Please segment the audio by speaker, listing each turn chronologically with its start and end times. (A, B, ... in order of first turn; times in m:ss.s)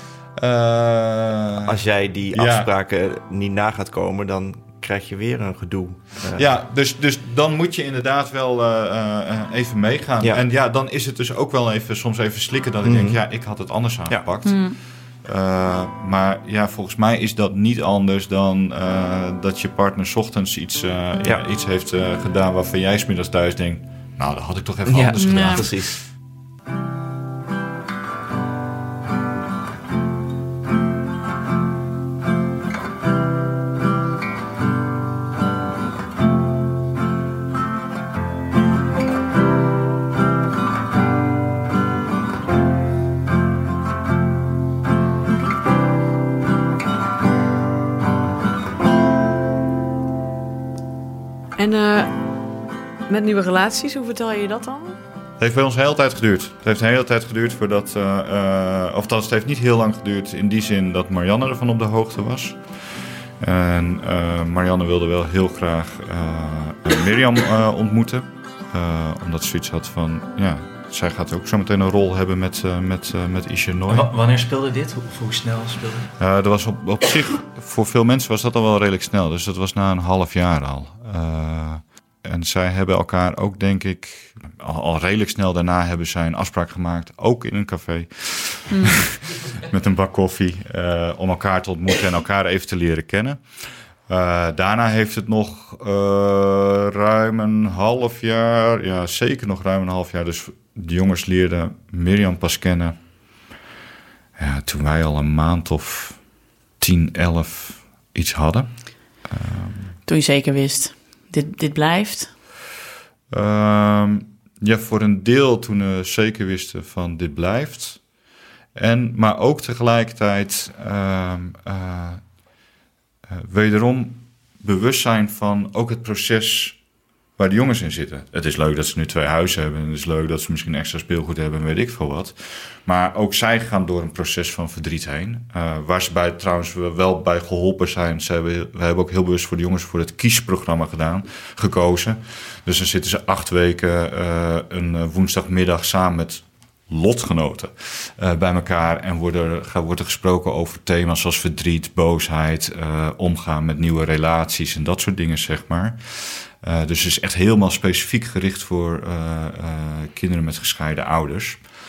0:00.4-0:01.8 A
0:01.6-0:06.4 B
0:02.3-0:02.7 A
0:06.3-0:25.9 A
0:12.8-0:13.2 B
0:14.4-0:14.8 C
0:24.9-0:26.0 B
0:25.2-0:25.6 C
0:51.6-0:52.4 D
0:53.1-0:55.0 D
0:55.4-1:14.1 A
1:13.9-1:16.1 E
1:16.2-1:43.0 A
1:44.4-1:46.3 A
1:46.8-1:50.0 A
1:50.1-1:52.4 C
1:53.3-1:58.0 A
1:58.7-2:02.2 A
2:03.3-2:06.8 A
2:07.4-2:41.6 A